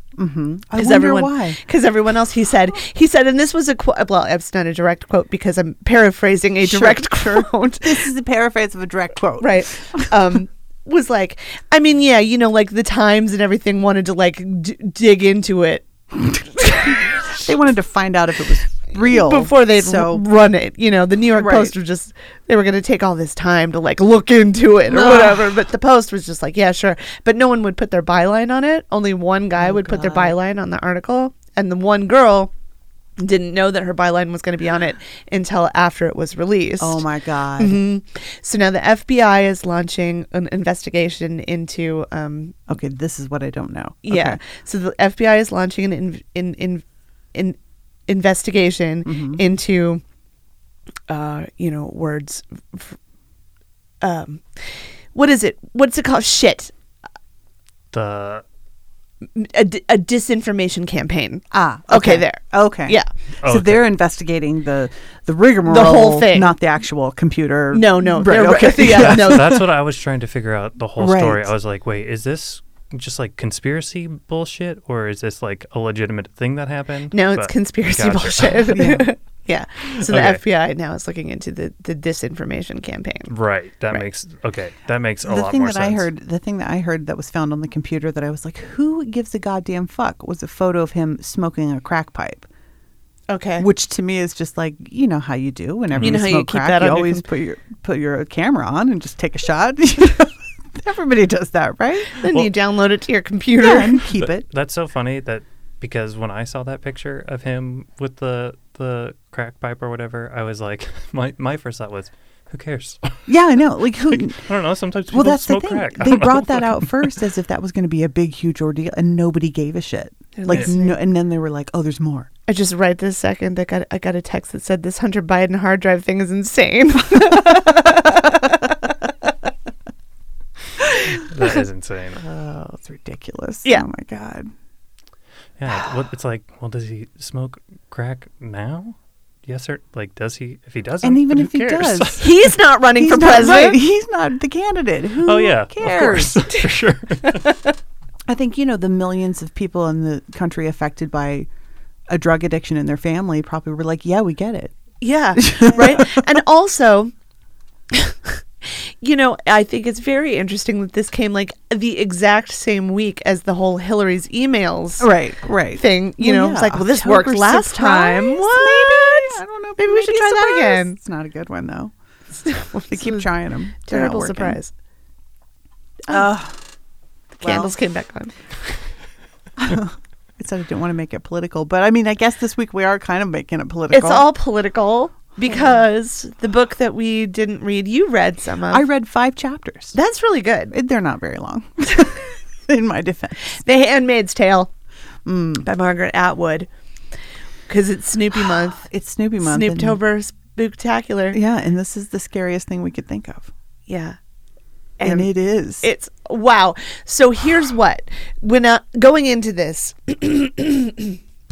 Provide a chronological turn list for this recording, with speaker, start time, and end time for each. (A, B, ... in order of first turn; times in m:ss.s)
0:00.2-0:01.6 A
0:00.8-0:08.1 B
0:06.6-0:10.2 A
0:09.4-0:17.0 B
0:16.9-0:20.2 A
0:18.9-0:32.5 B
0:21.4-0:21.7 A
0:24.9-0:25.5 A
0:29.6-0:30.4 A
0:33.2-0:37.0 B
0:36.8-0:37.8 A
0:37.6-0:42.6 B
0:42.7-0:44.4 A
0:44.0-0:47.6 B
0:48.1-0:50.0 B
0:49.1-0:49.4 A
0:51.1-0:53.0 B
0:54.0-0:56.7 B
0:57.9-0:58.4 C
0:59.4-1:03.1 B
1:01.5-1:09.7 A
1:03.4-1:03.9 C
1:05.7-1:06.5 B
1:07.7-1:09.6 B
1:08.8-1:18.6 C
1:11.0-1:11.5 A
1:17.1-1:23.3 B
1:18.7-1:19.1 A
1:20.0-1:20.4 C
1:23.3-1:26.1 C
1:25.2-1:32.5 A
1:33.3-1:33.7 B
1:33.6-1:42.2 A
1:35.9-1:36.2 C
1:36.0-1:37.2 B
1:42.2-1:44.0 B
1:43.6-1:44.5 A
1:44.2-1:53.3 C
1:53.3-1:54.5 A
1:53.9-1:57.0 C
1:55.1-2:02.3 A
2:00.4-2:01.0 B
2:02.5-2:08.6 B
2:11.1-2:12.2 C
2:12.2-2:14.5 A
2:15.6-2:22.5 C
2:21.0-2:22.4 A
2:22.2-2:23.8 B
2:23.0-2:26.5 A
2:25.2-2:27.5 C
2:28.3-2:31.5 A
2:32.1-2:34.7 A
2:35.0-2:37.1 B
2:35.4-2:36.3 A
2:37.9-2:45.1 B
2:45.0-2:51.9 A
2:45.7-2:51.0 B
2:52.4-2:53.3 B
2:52.9-2:54.6 A
2:53.8-2:54.7 B
2:56.1-2:56.6 A
2:57.4-2:58.3 B
2:57.4-2:57.7 A
2:59.6-3:04.3 A
3:03.9-3:08.9 B
3:08.7-3:10.0 A
3:09.9-3:10.7 B
3:10.7-3:13.6 A
3:13.4-3:14.7 B
3:15.2-3:15.7 A
3:15.6-3:16.7 B
3:17.7-3:18.9 B
3:18.8-3:20.0 A
3:19.4-3:21.4 B
3:21.3-3:23.5 A
3:23.9-3:24.2 B
3:25.0-3:31.2 B
3:25.0-3:25.9 A